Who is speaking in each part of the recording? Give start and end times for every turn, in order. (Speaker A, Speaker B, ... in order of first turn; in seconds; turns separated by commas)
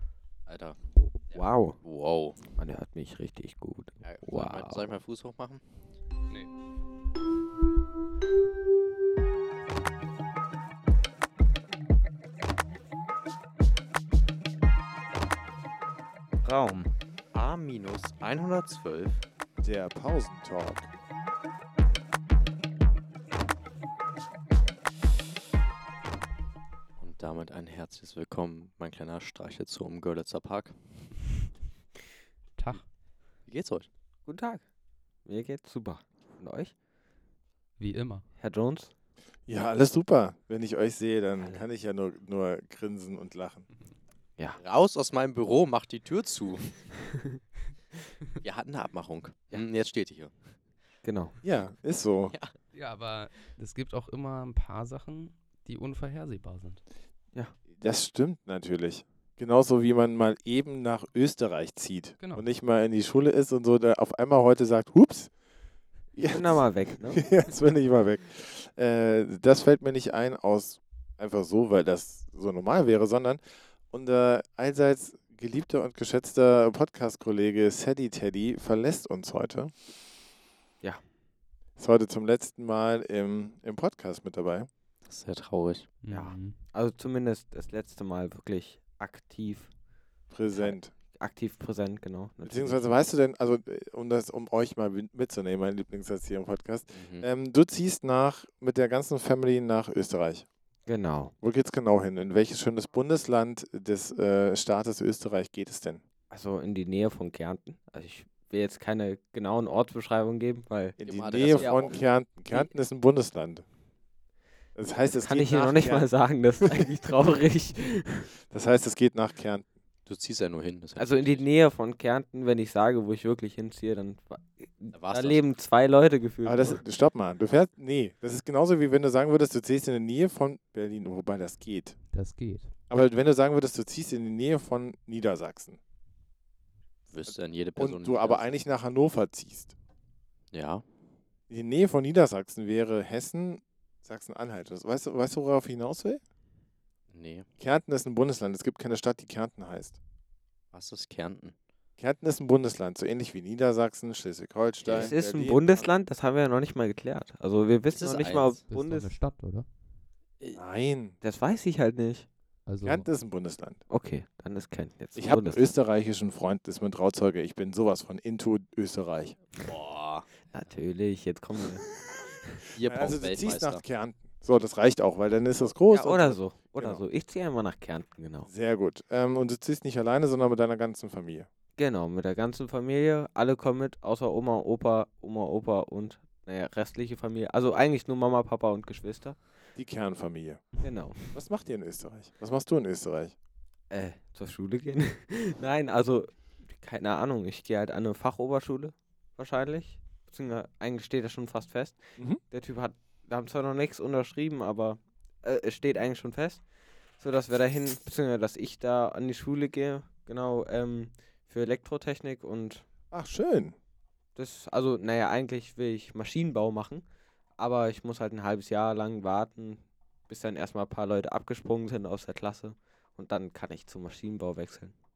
Speaker A: 0.5-2.4, Speaker B: 1.3-1.8, Speaker B: 2.5-5.0, Speaker A: 4.0-5.7, Speaker A: 16.4-19.2, Speaker C: 19.6-20.9, Speaker A: 27.0-30.8, Speaker D: 32.6-32.8, Speaker A: 33.5-33.9, Speaker B: 34.3-34.6, Speaker B: 35.2-36.7, Speaker D: 37.8-38.2, Speaker B: 38.4-38.9, Speaker C: 39.5-43.7, Speaker A: 44.6-46.9, Speaker A: 48.4-50.4, Speaker B: 51.0-51.4, Speaker C: 51.4-52.4, Speaker D: 52.7-56.8, Speaker C: 57.7-65.3, Speaker C: 66.2-79.7, Speaker B: 66.2-67.3, Speaker C: 81.8-84.7, Speaker A: 85.0-85.9, Speaker D: 86.0-86.6, Speaker B: 86.1-89.7, Speaker C: 90.3-90.9, Speaker B: 90.5-93.0, Speaker C: 92.5-100.5, Speaker A: 96.9-97.3, Speaker B: 100.9-101.3, Speaker C: 101.4-106.0, Speaker B: 106.3-111.0, Speaker A: 111.0-112.0, Speaker C: 111.0-113.6, Speaker B: 111.6-112.0, Speaker C: 114.8-116.1, Speaker B: 115.2-118.3, Speaker C: 118.5-119.7, Speaker A: 120.1-121.5, Speaker B: 121.0-126.8, Speaker A: 124.9-125.5, Speaker C: 126.4-132.0, Speaker D: 132.1-132.7, Speaker C: 132.9-135.8, Speaker A: 137.1-138.6, Speaker C: 137.3-139.8, Speaker A: 140.5-140.8, Speaker C: 141.5-146.2, Speaker A: 147.1-147.5, Speaker C: 147.6-150.0, Speaker A: 150.7-151.6, Speaker C: 152.0-155.9, Speaker A: 154.8-155.1, Speaker B: 154.9-159.1, Speaker A: 157.9-158.6, Speaker D: 158.7-159.7, Speaker C: 160.5-161.2, Speaker B: 161.2-162.3, Speaker D: 162.7-163.1, Speaker C: 162.8-163.8, Speaker B: 163.9-165.8, Speaker C: 165.2-169.4, Speaker A: 169.6-170.5, Speaker B: 170.5-171.8, Speaker A: 172.7-173.8, Speaker C: 172.8-177.0, Speaker B: 175.8-178.5, Speaker C: 178.5-181.5, Speaker B: 181.8-189.4, Speaker C: 189.8-190.7, Speaker B: 190.8-191.4, Speaker C: 191.3-193.3, Speaker B: 193.9-206.6, Speaker B: 207.2-212.8, Speaker C: 213.1-213.8, Speaker B: 214.4-217.1, Speaker B: 217.6-224.9